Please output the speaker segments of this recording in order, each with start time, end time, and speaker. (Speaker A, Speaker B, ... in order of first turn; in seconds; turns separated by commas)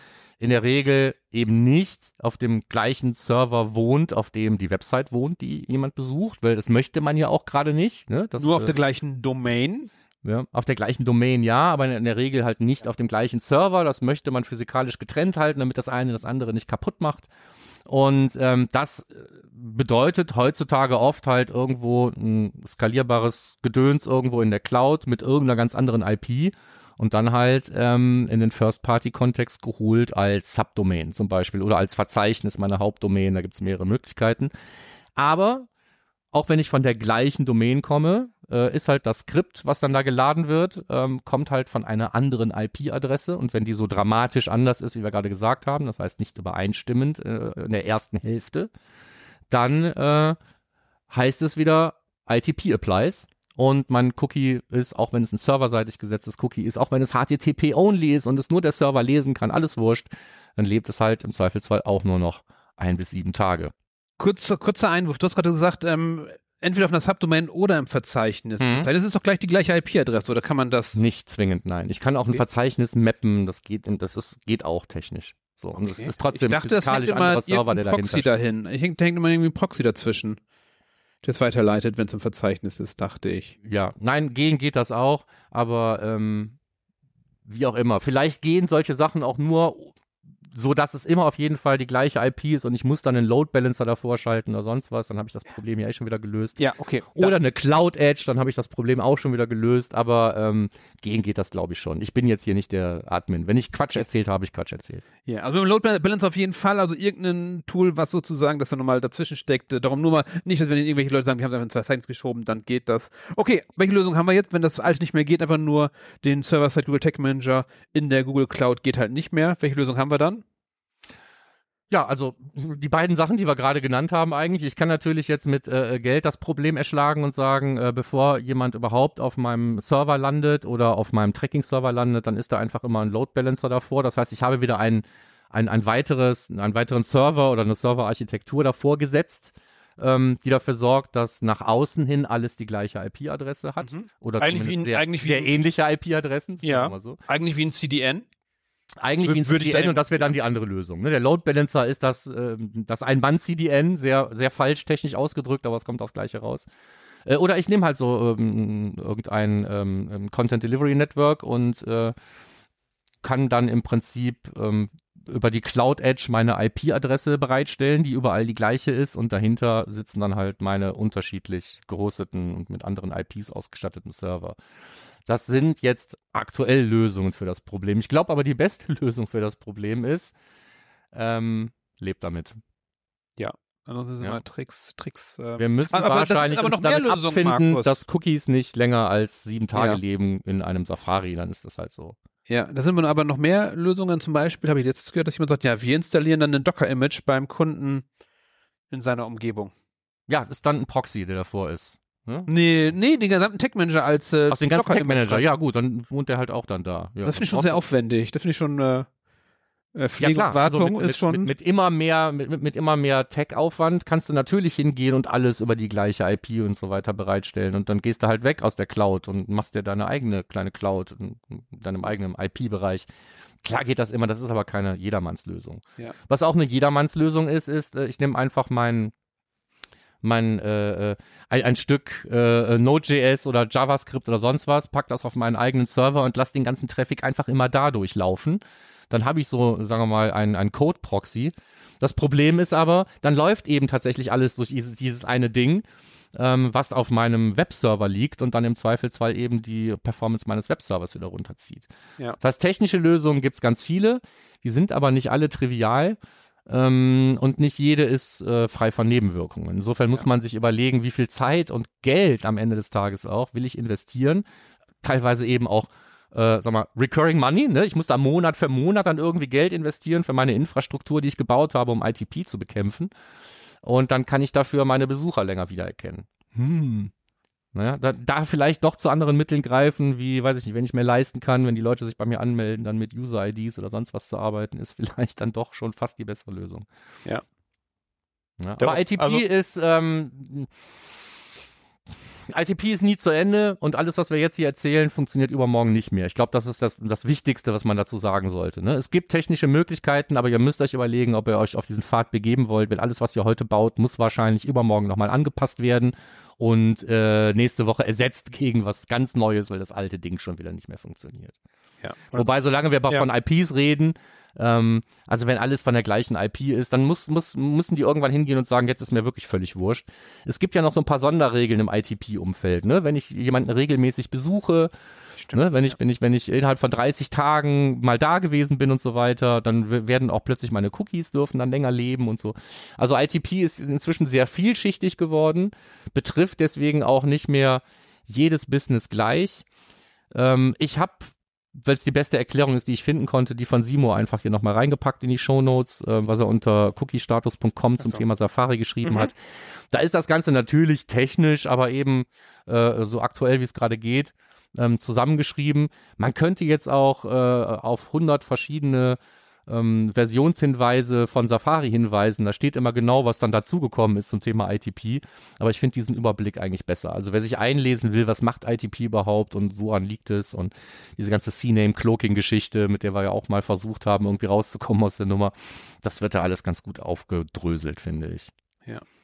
Speaker A: 0.4-8.8, Speaker B: 8.4-9.9, Speaker A: 10.2-17.3, Speaker A: 17.9-34.5, Speaker A: 35.2-35.7, Speaker A: 36.3-48.7, Speaker A: 49.5-50.4, Speaker A: 51.1-63.7, Speaker B: 64.2-71.0, Speaker A: 68.6-68.9, Speaker A: 71.0-78.3, Speaker B: 75.8-80.4, Speaker B: 81.2-83.5, Speaker A: 83.6-86.6, Speaker A: 87.5-90.0, Speaker A: 90.5-96.6, Speaker B: 96.6-97.4, Speaker A: 97.1-105.0, Speaker B: 105.3-120.4, Speaker A: 121.9-147.2, Speaker B: 143.8-145.6, Speaker B: 146.6-148.3, Speaker A: 149.0-156.7, Speaker B: 149.2-150.3, Speaker A: 157.3-162.2, Speaker A: 163.2-174.6, Speaker A: 175.3-180.3, Speaker A: 181.1-182.6, Speaker B: 183.4-188.0, Speaker A: 185.6-192.2, Speaker B: 189.7-190.0, Speaker B: 192.5-198.1, Speaker B: 198.9-199.7, Speaker A: 200.3-202.5, Speaker B: 202.5-205.5, Speaker A: 204.5-207.8, Speaker B: 207.2-209.1, Speaker B: 209.9-211.5, Speaker A: 210.2-223.1, Speaker A: 223.6-229.1, Speaker A: 230.2-245.8, Speaker A: 246.3-251.9, Speaker A: 252.4-264.4, Speaker A: 265.0-273.1, Speaker A: 273.8-277.1, Speaker A: 277.8-286.9, Speaker A: 288.6-290.7, Speaker B: 288.8-289.4, Speaker A: 292.5-311.6, Speaker B: 312.0-312.5, Speaker A: 312.3-324.9, Speaker B: 325.4-326.0, Speaker A: 325.5-339.6, Speaker A: 340.3-349.4, Speaker B: 349.1-349.3, Speaker A: 349.9-378.5